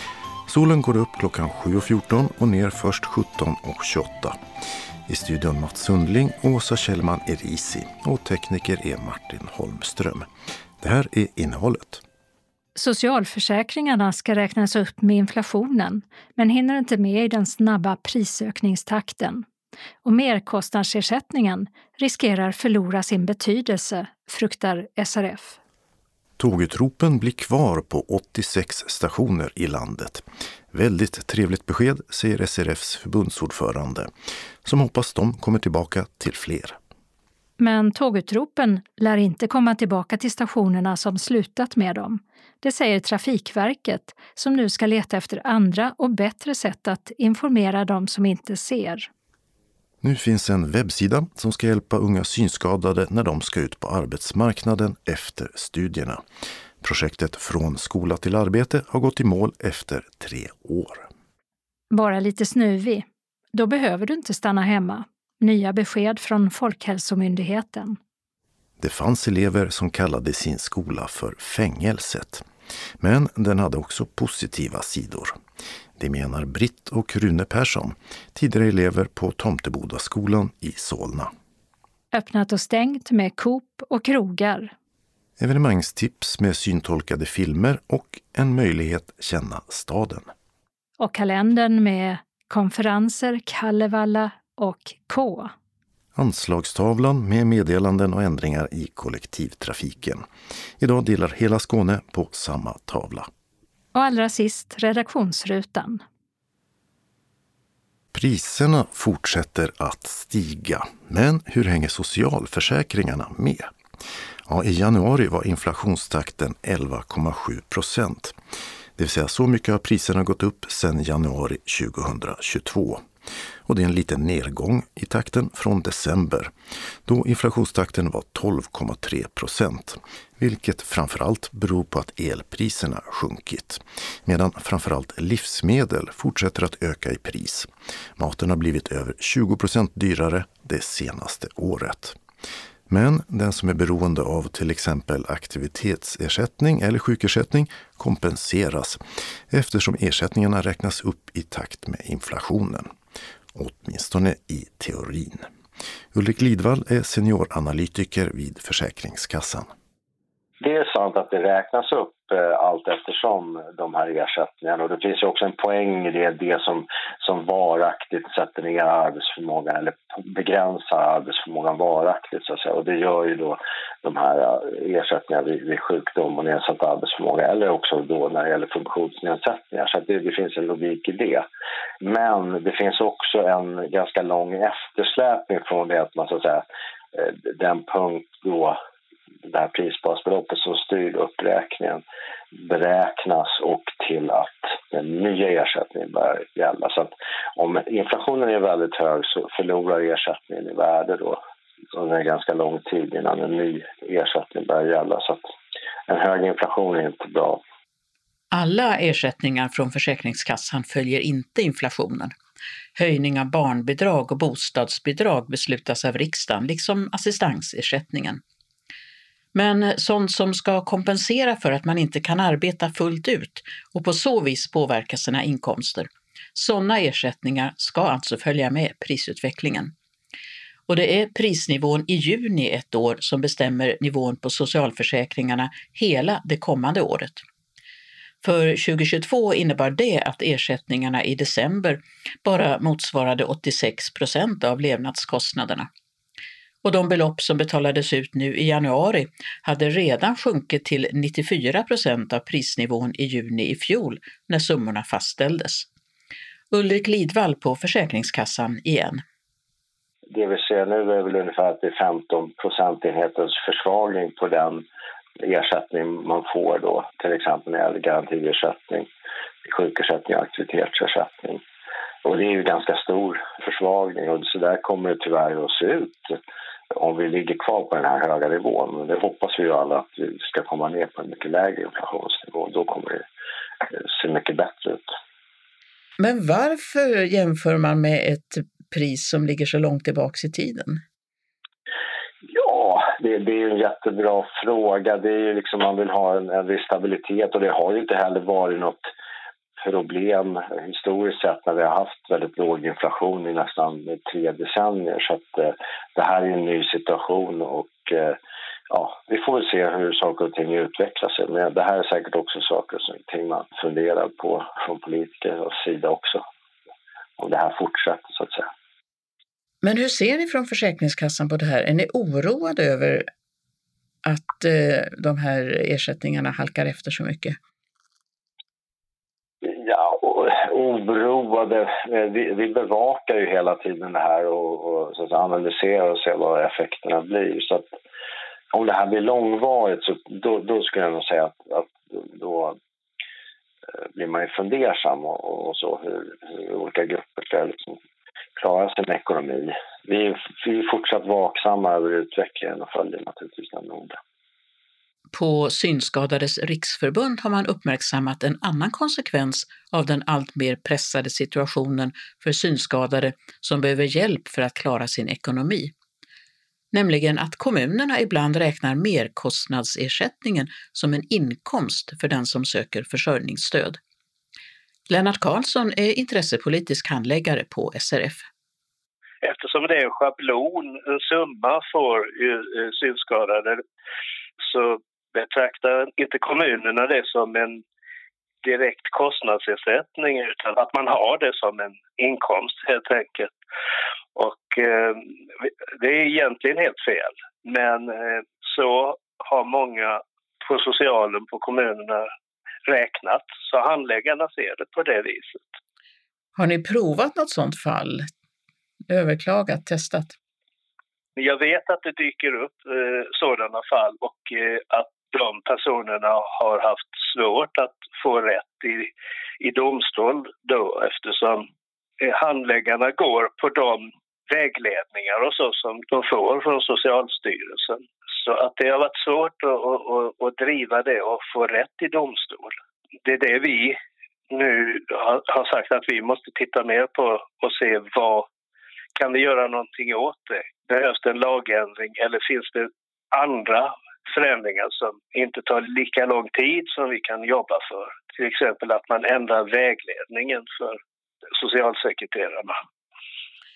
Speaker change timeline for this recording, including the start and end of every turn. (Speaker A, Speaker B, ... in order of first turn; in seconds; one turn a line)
Speaker A: 0.5-4.4
Speaker A: 5.1-10.3
Speaker A: 10.8-12.0
Speaker B: 12.8-19.4
Speaker B: 20.0-25.6
Speaker A: 26.4-34.1
Speaker A: 34.6-36.8
Speaker B: 37.6-49.1
Speaker A: 50.0-56.2
Speaker A: 56.8-61.1
Speaker B: 61.9-68.0
Speaker A: 68.8-72.4
Speaker A: 73.0-75.4
Speaker A: 76.0-81.3
Speaker B: 82.1-84.7
Speaker A: 85.4-90.3
Speaker B: 91.0-95.5
Speaker A: 96.1-100.2
Speaker A: 100.8-103.3
Speaker B: 103.9-106.0
Speaker A: 108.1-113.7
Speaker A: 114.5-118.4
Speaker A: 119.0-123.0
Speaker A: 123.6-126.5
Speaker A: 127.0-142.2
Speaker A: 142.9-152.9
Speaker A: 153.5-155.5
Speaker A: 156.1-159.7
Speaker C: 160.6-181.4
Speaker C: 182.0-188.8
Speaker C: 189.5-192.0
Speaker C: 192.6-201.4
Speaker C: 201.9-205.4
Speaker C: 206.1-207.6
Speaker D: 208.5-212.3
Speaker D: 212.9-218.4
Speaker D: 219.5-229.9
Speaker D: 230.9-237.4
Speaker D: 238.4-245.9
Speaker D: 246.8-255.8
Speaker D: 256.7-259.2
Speaker C: 260.3-264.8
Speaker C: 265.4-269.1
Speaker C: 269.6-271.6
Speaker C: 272.2-276.4
Speaker C: 276.9-283.2
Speaker C: 283.9-285.1
Speaker D: 286.2-291.0
Speaker C: 292.5-299.1
Speaker C: 299.8-308.4
Speaker C: 308.9-316.4
Speaker C: 317.4-318.7
Speaker D: 319.8-323.3
Speaker D: 324.2-327.6
Speaker C: 329.6-337.9
Speaker C: 338.7-342.8
Speaker C: 344.1-348.0
Speaker C: 348.6-354.2
Speaker D: 355.3-365.9
Speaker D: 366.9-374.0
Speaker D: 375.1-378.5
Speaker E: 379.4-383.8
Speaker E: 384.6-387.8
Speaker E: 388.6-393.5
Speaker E: 394.4-402.3
Speaker E: 402.9-405.8
Speaker D: 406.6-408.3
Speaker D: 409.1-410.3
Speaker E: 411.4-421.7
Speaker E: 422.2-434.0
Speaker E: 434.5-438.5
Speaker E: 439.2-451.0
Speaker E: 451.6-452.8